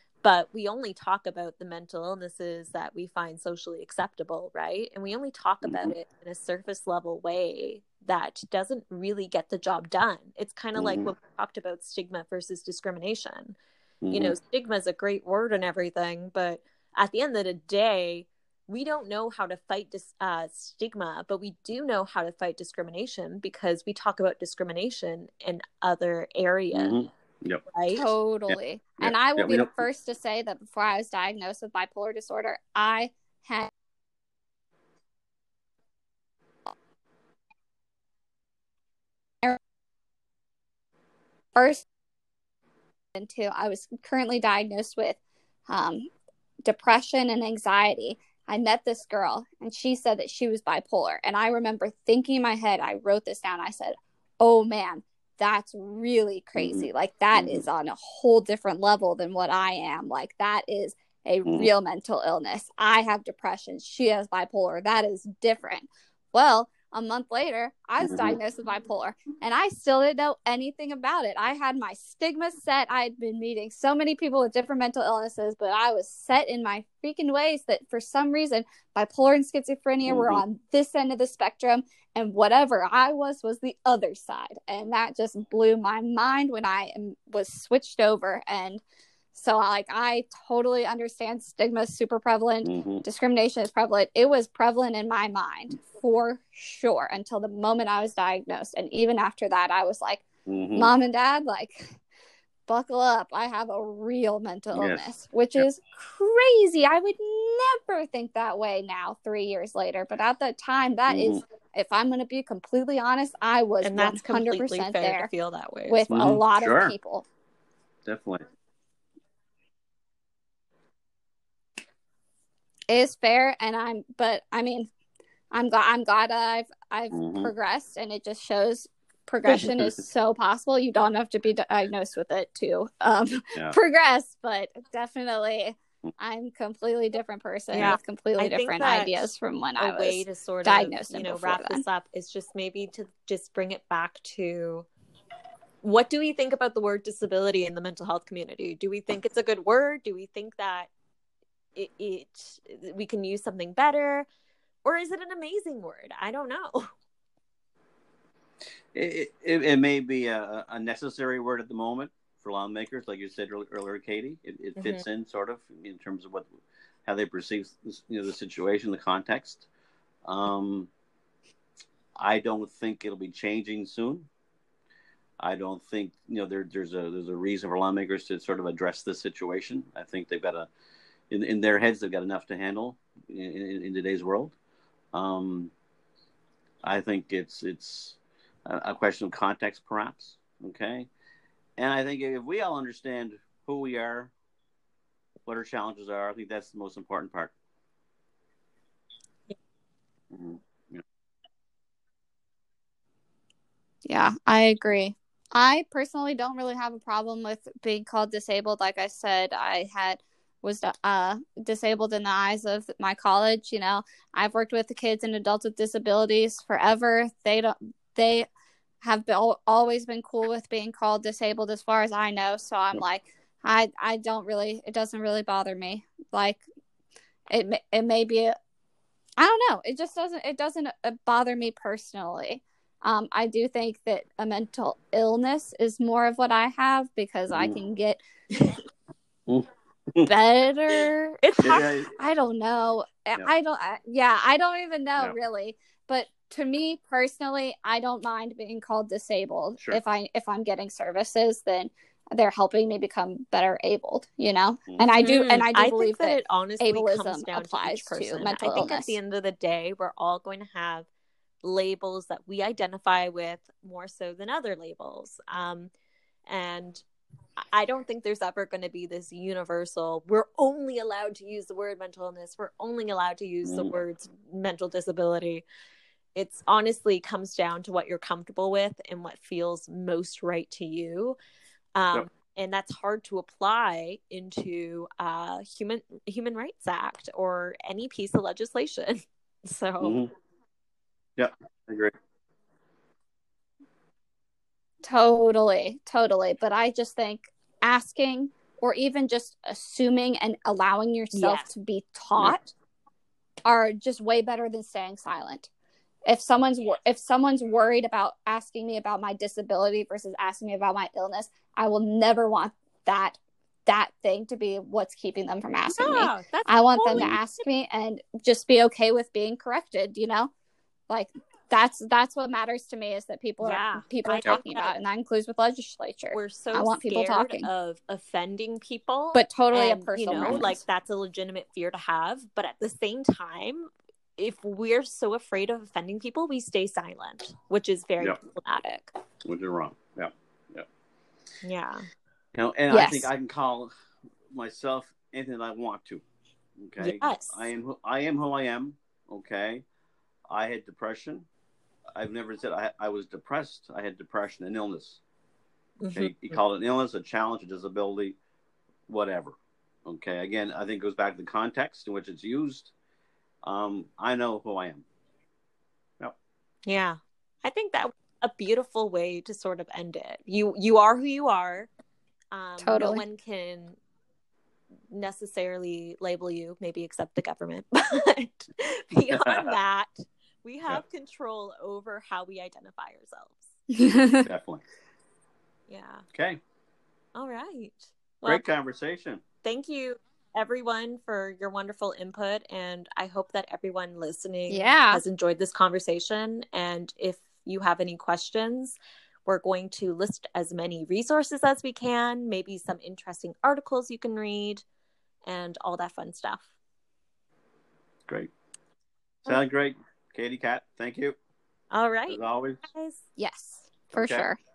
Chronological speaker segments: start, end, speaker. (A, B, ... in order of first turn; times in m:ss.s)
0:00.2-0:13.6 A
0:05.6-0:05.9 B
0:10.8-0:11.1 B
0:14.0-0:14.4 B
0:14.1-0:27.0 A
0:26.7-0:27.6 B
0:27.7-0:28.1 A
0:27.9-0:33.7 C
0:28.5-0:29.7 B
0:41.6-0:41.8 C
0:43.2-0:46.1 C
0:46.6-1:28.8 C
0:56.6-0:57.6 B
1:08.0-1:08.4 B
1:20.0-1:20.4 B
1:29.3-1:40.2 C
1:32.6-1:33.0 B
1:40.5-1:40.9 B
1:40.8-1:42.0 C
1:42.7-1:55.3 C
1:44.7-1:45.6 B
1:51.1-1:51.4 B
1:53.8-1:56.1 A
1:55.9-1:57.2 C
1:56.1-1:57.0 B
1:58.0-1:58.4 B
2:02.9-2:04.9 C
2:05.5-2:21.8 C
2:07.1-2:07.5 B
2:17.7-2:24.9 A
2:25.8-2:30.9 A
2:31.8-2:34.3 A
2:34.8-2:36.9 A
2:38.9-2:46.5 B
2:44.8-2:45.0 A
2:47.0-2:49.7 B
2:50.2-2:50.9 B
2:52.2-2:54.3 B
2:55.4-3:00.7 B
3:01.3-3:04.6 B
3:05.1-3:05.7 B
3:06.8-3:11.1 B
3:11.8-3:14.3 B
3:15.5-3:17.5 B
3:20.3-3:21.0 B
3:24.0-3:38.5 C
3:39.0-3:46.6 C
3:47.5-3:48.5 C
3:49.4-3:58.2 C
3:59.5-4:00.3 B
4:00.2-4:19.2 C
4:01.4-4:02.0 A
4:01.6-4:02.2 B
4:14.9-4:15.1 B
4:15.2-4:21.1 A
4:21.6-4:25.9 A
4:26.5-4:27.0 A
4:27.7-4:35.6 A
4:33.6-4:33.9 B
4:36.4-4:41.4 A
4:42.0-4:50.2 A
4:50.0-4:50.3 B
4:51.4-4:52.1 B
4:55.0-5:02.7 C
5:01.3-5:01.7 A
5:03.6-5:05.7 C
5:06.3-5:20.5 C
5:15.9-5:17.6 A
5:21.1-5:27.7 C
5:23.6-5:25.0 A
5:26.3-5:39.1 A
5:29.4-5:30.8 C
5:30.3-5:30.6 B
5:39.4-5:40.9 B
5:41.6-5:42.1 A
5:42.5-5:43.9 B
5:42.9-5:43.3 C
5:44.5-5:46.2 B
5:46.8-5:49.8 B
5:47.0-5:47.7 A
5:50.5-5:51.5 B
5:52.2-5:55.2 B
5:56.0-5:56.6 A
5:56.2-5:58.4 B
5:59.1-6:02.9 B
6:03.6-6:05.1 B
6:06.9-6:11.9 A
6:12.5-6:14.0 A
6:12.8-6:13.2 C
6:15.1-6:23.8 A
6:19.3-6:19.8 B
6:23.9-6:24.5 C
6:24.4-6:24.8 B
6:25.9-6:26.2 A
6:26.3-6:26.6 B
6:27.4-6:28.6 A
6:28.5-6:29.4 B
6:29.6-6:44.8 A
6:34.7-6:35.2 C
6:45.5-6:46.7 A
6:49.4-6:51.4 B
6:51.9-6:53.2 A
6:52.3-6:52.8 B
6:53.4-6:54.6 C
6:54.1-6:54.5 B